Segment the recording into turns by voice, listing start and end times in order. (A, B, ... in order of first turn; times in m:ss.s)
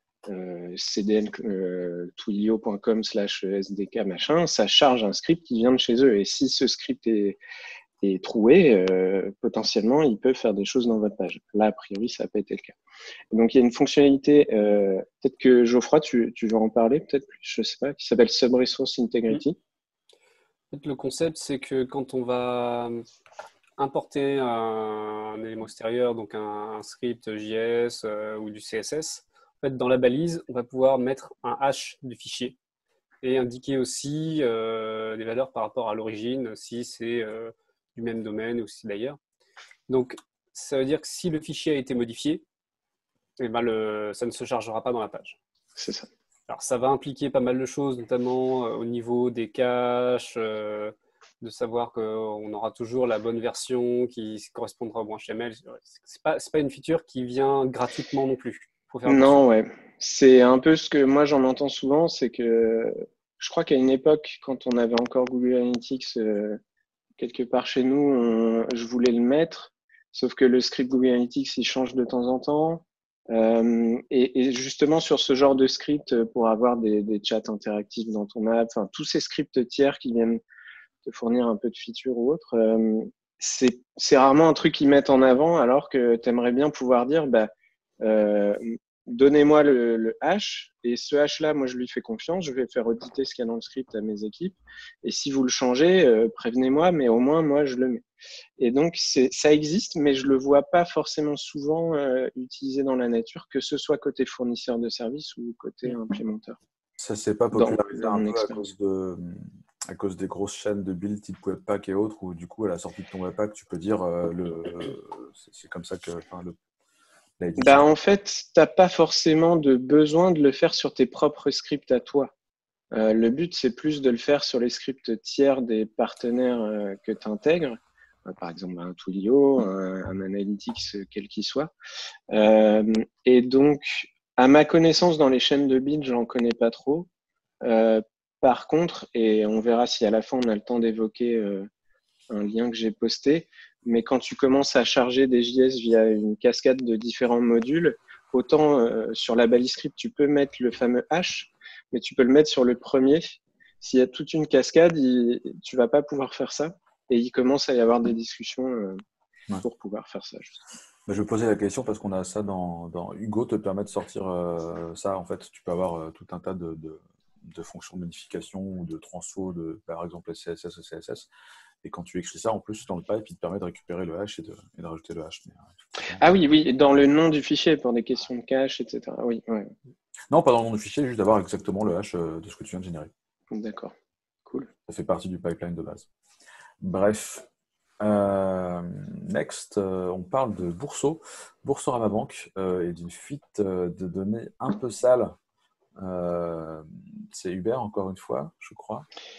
0:00.3-0:07.4 A
0:08.0-0:12.8 A
0:13.3-0:19.6 A
0:20.7-0:23.0 B
0:23.8-0:32.6 B
0:33.2-0:39.2 B
0:39.9-0:42.4 B
0:43.4-0:45.4 B
0:45.8-0:46.1 A
0:46.5-0:59.4 B
0:59.1-1:06.6 A
1:07.2-1:20.4 A
1:21.0-1:27.5 A
1:28.0-1:38.0 A
1:38.6-1:46.6 A
1:47.0-1:56.6 C
1:47.5-1:48.7 A
1:57.4-1:57.9 C
1:57.6-2:02.3 A
2:02.9-2:11.7 A
2:12.3-2:17.1 A
2:17.6-2:21.7 A
2:22.3-2:39.0 A
2:39.6-2:40.6 A
2:41.1-2:51.3 C
2:51.8-2:56.3 C
2:56.2-2:59.7 A
3:00.3-3:03.1 C
3:03.5-3:03.9 A
3:04.9-3:06.1 C
3:06.8-3:07.4 C
3:08.0-3:15.3 C
3:16.0-3:19.0 C